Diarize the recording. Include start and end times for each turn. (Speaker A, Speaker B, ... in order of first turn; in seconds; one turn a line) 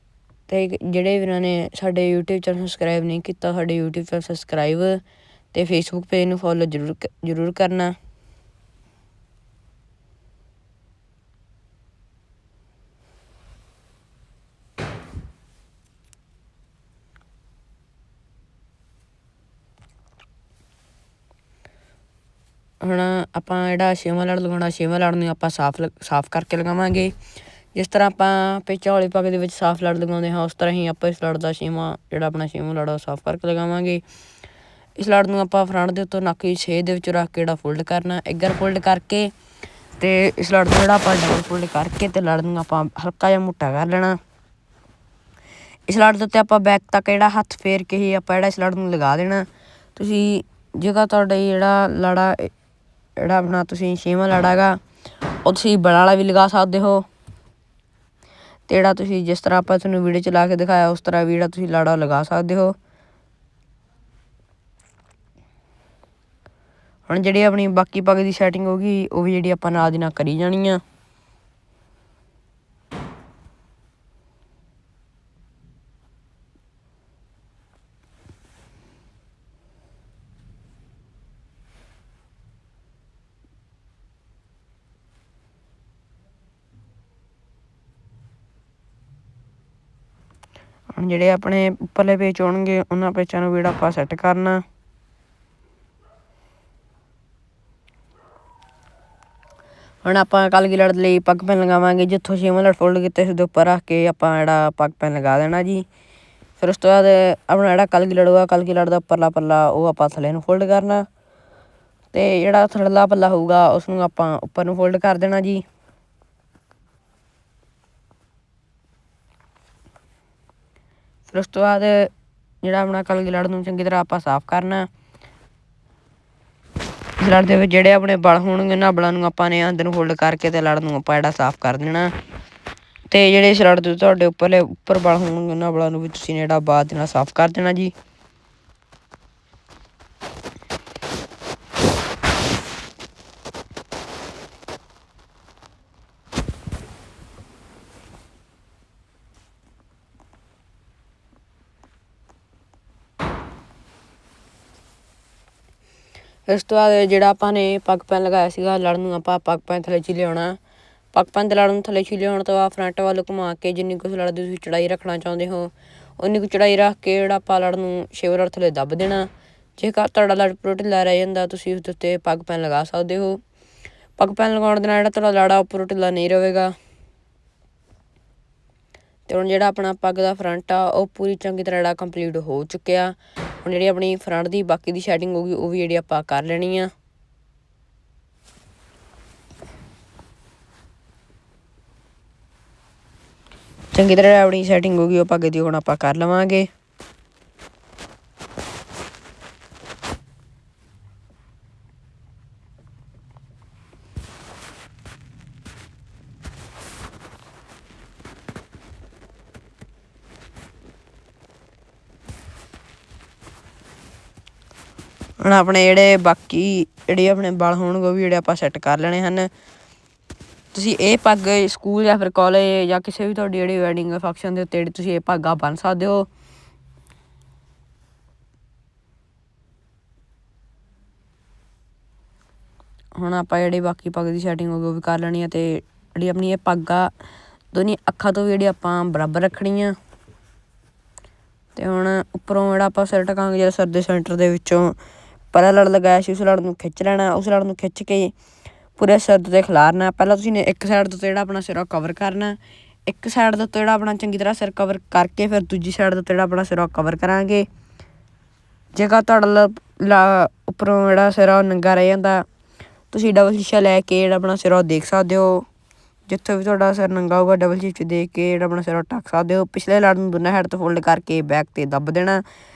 Speaker A: 0.5-5.0
Speaker A: 5.5-8.0
Speaker A: 22.8-27.1
Speaker A: 27.8-34.0
Speaker A: 35.0-39.3
Speaker A: 40.0-44.2
Speaker A: 45.9-52.5
Speaker A: 53.2-54.8
Speaker A: 55.4-57.0
Speaker A: 58.7-62.8
Speaker A: 67.1-70.8
Speaker A: 90.9-94.6
Speaker A: 100.0-105.8
Speaker A: 106.6-111.1
Speaker A: 112.1-115.6
Speaker A: 121.3-122.1
Speaker A: 122.6-124.9
Speaker A: 127.2-132.1
Speaker A: 133.1-137.9
Speaker A: 156.5-160.6
Speaker A: 161.1-173.4
Speaker A: 174.2-176.7
Speaker A: 179.3-186.9
Speaker A: 193.9-196.7
Speaker A: 215.4-219.5
Speaker A: 220.7-226.3
Speaker A: 233.2-237.1
Speaker A: 237.7-239.9
Speaker A: 241.8-244.9
Speaker A: 245.5-248.3
Speaker A: 249.0-257.7
Speaker A: 258.9-262.4
Speaker A: 263.1-265.6
Speaker A: 266.3-272.4